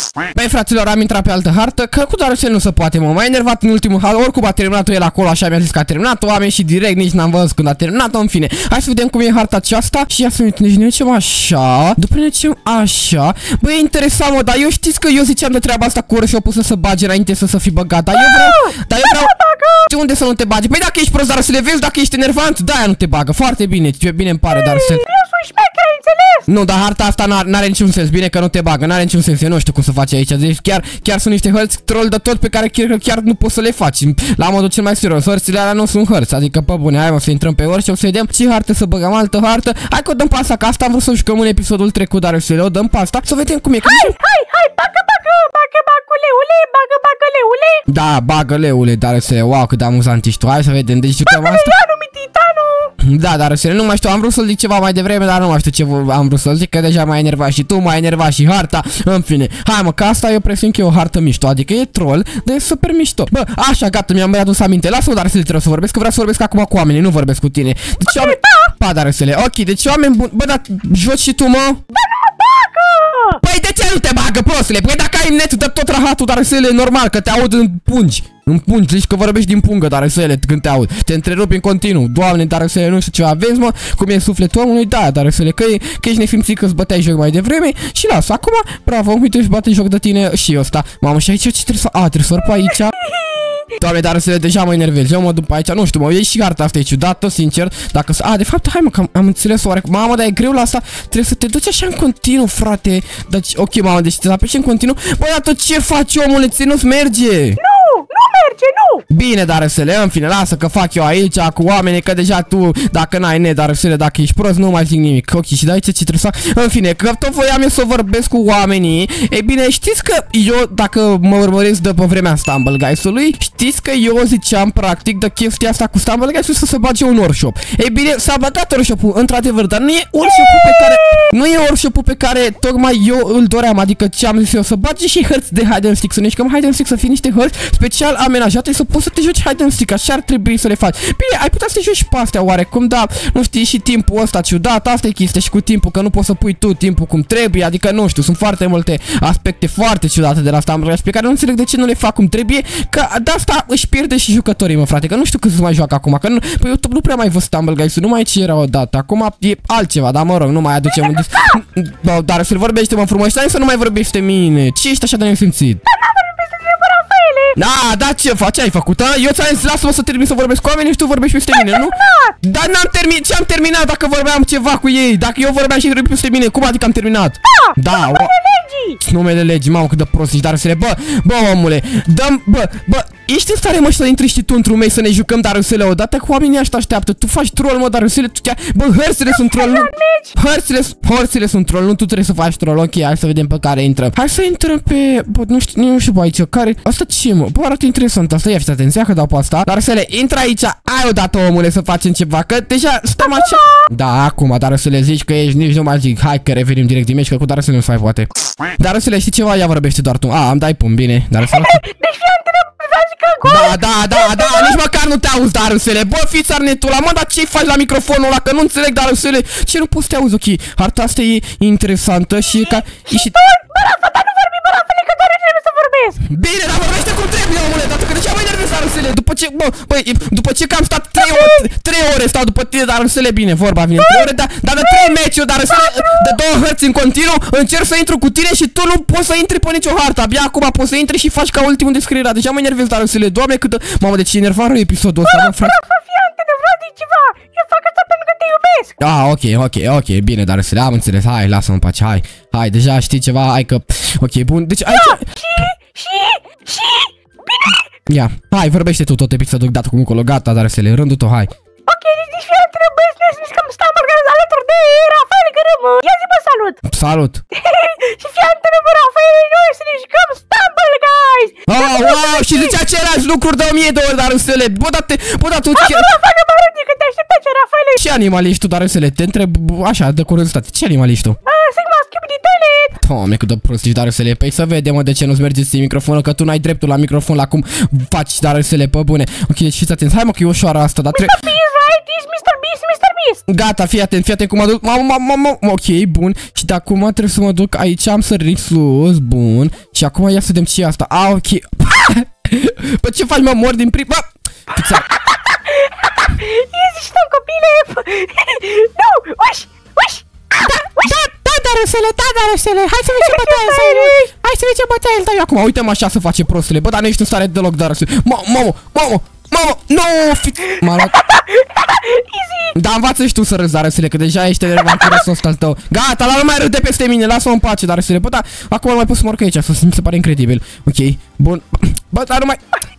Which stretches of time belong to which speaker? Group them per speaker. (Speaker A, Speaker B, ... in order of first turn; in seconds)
Speaker A: 0.3-19.3, 19.9-25.0, 26.5-44.1, 47.9-51.8, 53.0-71.8, 73.4-93.0, 93.8-107.6, 109.1-165.8, 167.6-178.3, 179.0-211.8, 213.4-223.4, 226.2-245.8, 249.0-255.3, 258.1-261.5, 266.9-267.4, 271.7-276.1, 278.0-281.4, 283.0-291.5, 293.5-305.1, 310.6-321.2, 322.7-332.6
Speaker B: 18.1-19.9, 24.5-26.5, 43.8-47.9, 51.2-52.9, 68.1-68.7, 71.9-73.4, 93.0-93.7, 107.6-109.0, 130.3-131.2, 160.9-161.6, 165.9-167.6, 171.5-172.3, 177.6-179.0, 189.3-190.4, 203.2-203.8, 211.4-214.8, 222.4-226.2, 231.2-231.7, 234.0-235.2, 235.7-236.3, 245.2-249.0, 254.9-257.9, 261.9-266.8, 267.5-272.8, 275.8-278.0, 281.5-283.0, 291.1-293.4, 305.4-311.1, 313.1-314.3, 321.1-322.8, 324.8-325.2